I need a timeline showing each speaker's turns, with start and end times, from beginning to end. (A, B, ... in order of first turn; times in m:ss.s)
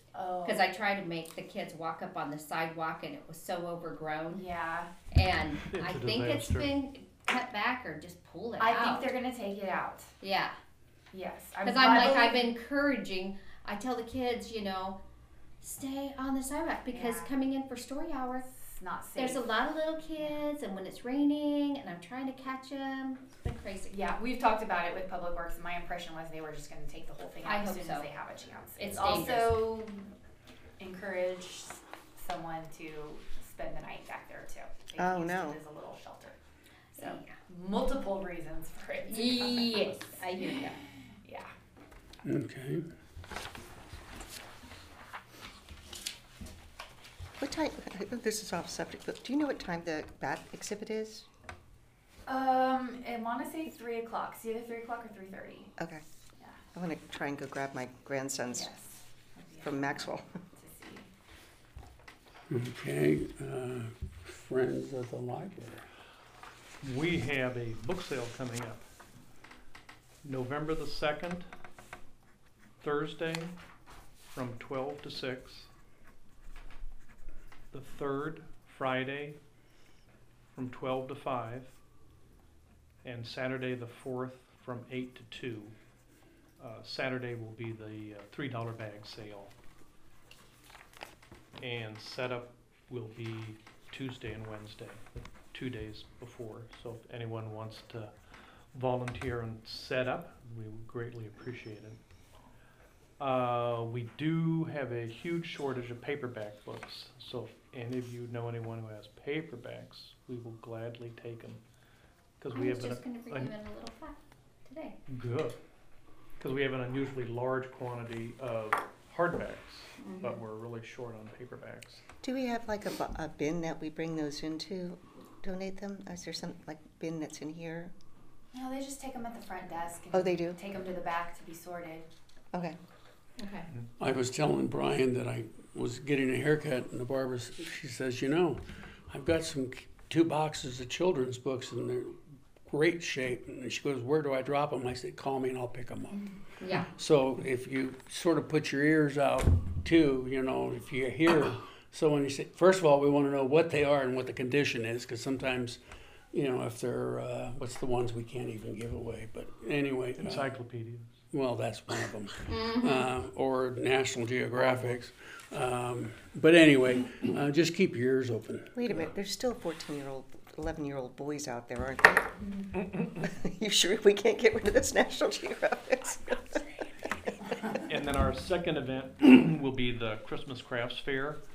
0:00.1-0:00.7 A
0:00.4-0:04.4 B
0:04.3-0:04.9 A
0:05.1-0:09.1 B
0:05.7-0:06.7 C
0:08.6-0:10.1 A
0:10.2-0:10.5 B
0:11.1-0:12.5 A
0:11.6-0:15.0 B
0:15.6-0:18.5 B
0:16.9-0:17.3 A
0:18.5-0:19.5 A
0:19.2-0:23.9 B
0:23.9-0:30.1 A
0:27.4-0:28.1 B
0:28.8-0:29.6 B
0:30.8-0:36.4 A
0:35.0-0:35.6 D
0:37.0-0:41.5 A
0:37.0-0:37.3 B
0:39.1-0:40.8 B
0:42.2-0:42.9 E
0:47.4-0:51.3 D
0:52.3-0:55.7 A
0:55.8-0:56.0 D
0:56.7-0:58.7 D
0:58.5-1:01.1 A
0:59.6-1:00.3 D
1:02.5-1:05.9 E
1:06.8-1:08.8 C
1:10.2-1:11.5 C
1:12.8-1:13.6 C
1:14.3-1:15.7 C
1:17.7-1:19.4 C
1:20.5-1:21.8 C
1:23.0-1:25.7 C
1:26.6-1:29.5 C
1:31.6-1:38.1 C
1:38.7-1:42.0 C
1:43.2-1:51.6 C
1:52.4-1:53.5 C
1:52.5-1:55.0 B
1:55.1-1:55.6 C
1:56.4-2:02.0 C
2:00.0-2:00.4 B
2:02.2-2:07.9 D
2:08.5-2:12.1 A
2:10.1-2:10.6 D
2:13.4-2:13.7 B
2:14.0-2:26.3 E
2:26.6-2:26.9 B
2:26.9-2:35.8 E
2:36.3-2:40.5 E
2:40.2-2:41.1 C
2:41.3-2:48.8 E
2:42.5-2:43.1 B
2:48.8-2:56.8 D
2:57.8-3:01.4 C